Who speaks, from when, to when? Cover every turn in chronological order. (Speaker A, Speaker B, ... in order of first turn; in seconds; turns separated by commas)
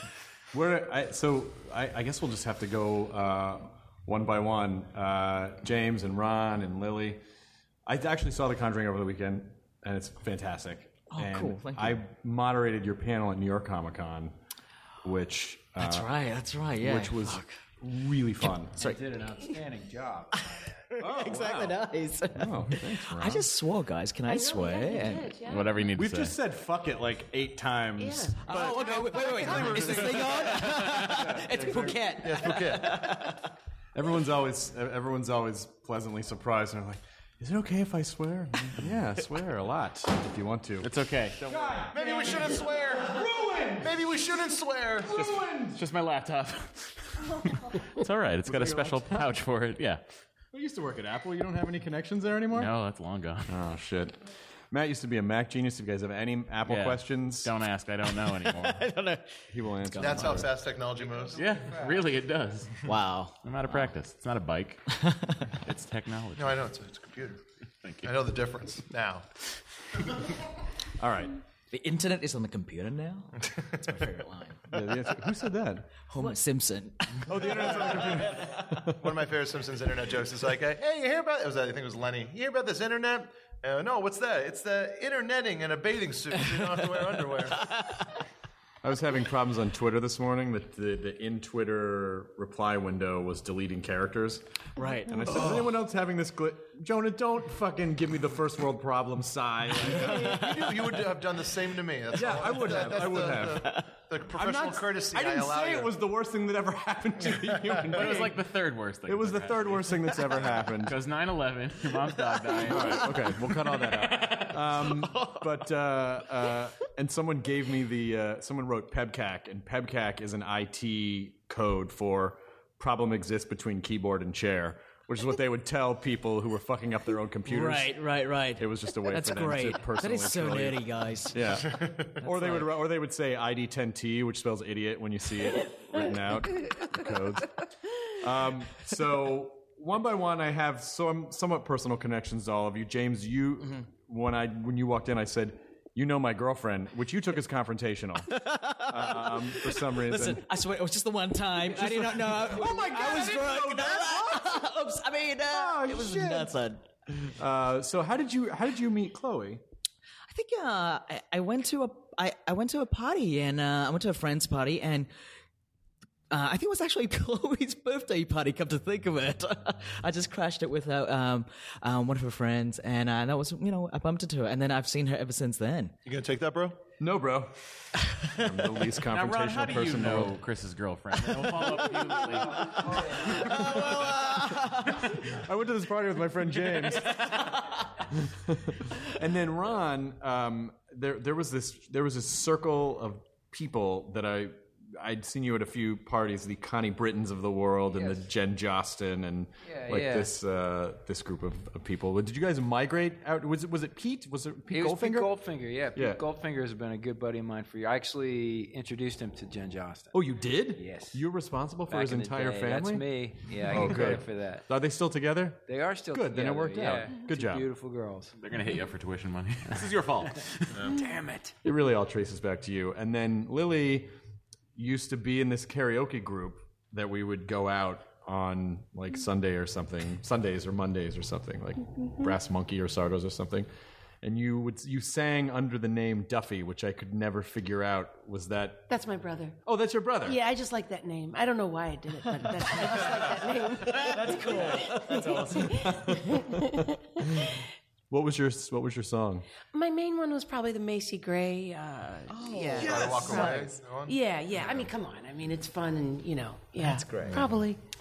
Speaker A: 0.5-7.2, Speaker A: 7.9-14.3, Speaker B: 11.1-12.0, Speaker A: 15.0-16.1, Speaker B: 15.8-17.5, Speaker A: 16.8-18.8, Speaker B: 18.4-19.6, Speaker C: 19.0-20.3, Speaker B: 20.3-25.3, Speaker A: 21.0-21.8, Speaker A: 22.4-23.5, Speaker D: 24.3-25.9, Speaker E: 25.4-26.4, Speaker A: 25.9-31.9, Speaker D: 28.0-29.9, Speaker B: 28.4-33.5, Speaker E: 30.5-31.4, Speaker F: 32.2-33.0, Speaker A: 33.9-44.2, Speaker E: 40.8-41.9, Speaker F: 41.9-45.4, Speaker A: 45.0-45.8, Speaker E: 45.8-50.0, Speaker A: 48.5-49.3, Speaker A: 50.5-52.7, Speaker E: 52.5-53.5, Speaker A: 53.5-54.2, Speaker A: 54.7-57.5, Speaker E: 56.7-58.9, Speaker B: 58.2-60.4, Speaker A: 59.5-60.5, Speaker F: 60.0-61.7, Speaker E: 61.4-62.9, Speaker B: 62.9-63.4, Speaker E: 63.4-65.0, Speaker B: 65.0-65.3, Speaker E: 65.5-66.7, Speaker F: 66.4-67.4, Speaker E: 67.8-68.1, Speaker F: 68.0-69.3, Speaker A: 71.0-71.3, Speaker B: 71.7-74.7, Speaker F: 73.5-73.8, Speaker A: 74.7-76.1, Speaker B: 76.1-78.5, Speaker A: 77.2-79.1, Speaker F: 77.6-78.2, Speaker F: 78.9-87.7, Speaker A: 88.8-94.4, Speaker B: 94.8-95.7, Speaker A: 95.1-100.7, Speaker F: 99.9-106.0, Speaker B: 100.0-100.3, Speaker A: 102.1-108.4, Speaker B: 103.5-103.8, Speaker F: 107.4-107.8, Speaker E: 107.8-114.5, Speaker A: 109.1-111.0, Speaker A: 112.6-128.0, Speaker B: 115.0-115.5, Speaker B: 127.5-131.7, Speaker A: 128.6-150.4, Speaker F: 131.8-132.1, Speaker B: 132.2-132.7, Speaker B: 148.3-156.9, Speaker A: 151.7-154.5, Speaker A: 155.5-156.5, Speaker A: 157.2-159.6, Speaker B: 160.3-165.1, Speaker B: 166.3-176.0, Speaker F: 176.1-176.8, Speaker A: 177.0-180.3, Speaker E: 179.1-183.4, Speaker B: 181.3-185.3, Speaker A: 183.5-183.9, Speaker A: 185.1-187.5, Speaker B: 186.7-187.8, Speaker A: 188.1-205.3, Speaker C: 197.9-198.2, Speaker C: 199.7-200.3, Speaker C: 204.7-211.2, Speaker A: 205.9-206.2, Speaker A: 210.1-213.0, Speaker C: 211.9-214.7, Speaker A: 213.6-217.7, Speaker C: 215.7-218.3, Speaker E: 218.4-220.9, Speaker C: 220.7-221.6, Speaker A: 221.6-224.1, Speaker A: 224.8-233.7, Speaker A: 234.2-238.9, Speaker D: 238.9-239.6, Speaker A: 239.7-240.4, Speaker D: 240.2-247.1, Speaker B: 242.8-243.1, Speaker B: 243.9-246.2, Speaker A: 244.7-246.7, Speaker A: 247.2-247.5, Speaker A: 248.1-249.4, Speaker D: 249.7-257.8, Speaker B: 252.3-253.7, Speaker F: 252.7-254.9, Speaker B: 256.8-257.6